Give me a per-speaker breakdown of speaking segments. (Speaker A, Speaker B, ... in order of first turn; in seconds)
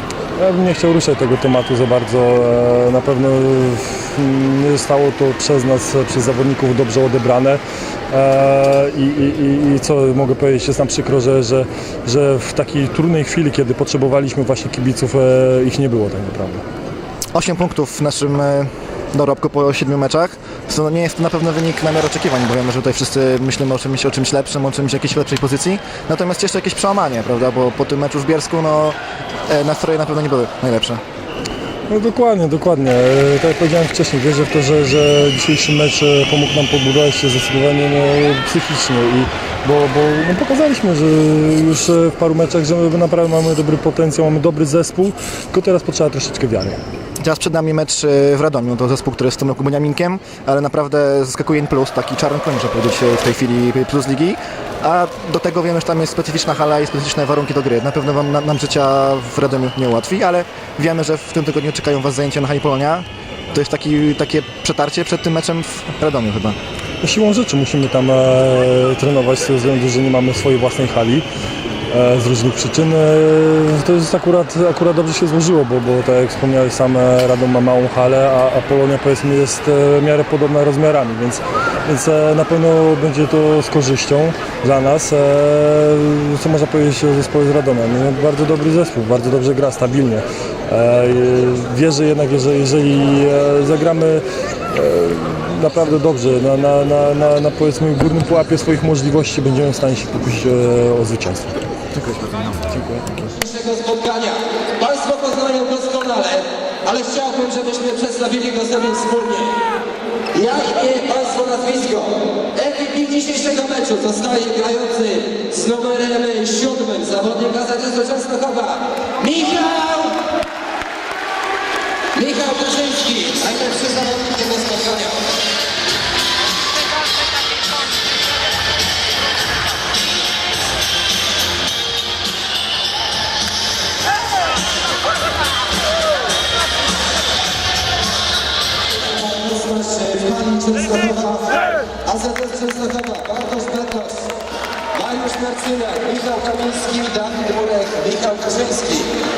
Speaker A: 0.4-16.6, 31.9-46.8, 67.0-71.2, 71.9-101.5, 102.6-103.2
Speaker B: 17.3-28.9, 29.5-31.0, 47.2-66.6, 102.0-102.3
Speaker C: 103.4-109.6, 110.3-120.2, 122.1-125.2, 139.1-144.3, 144.9-149.1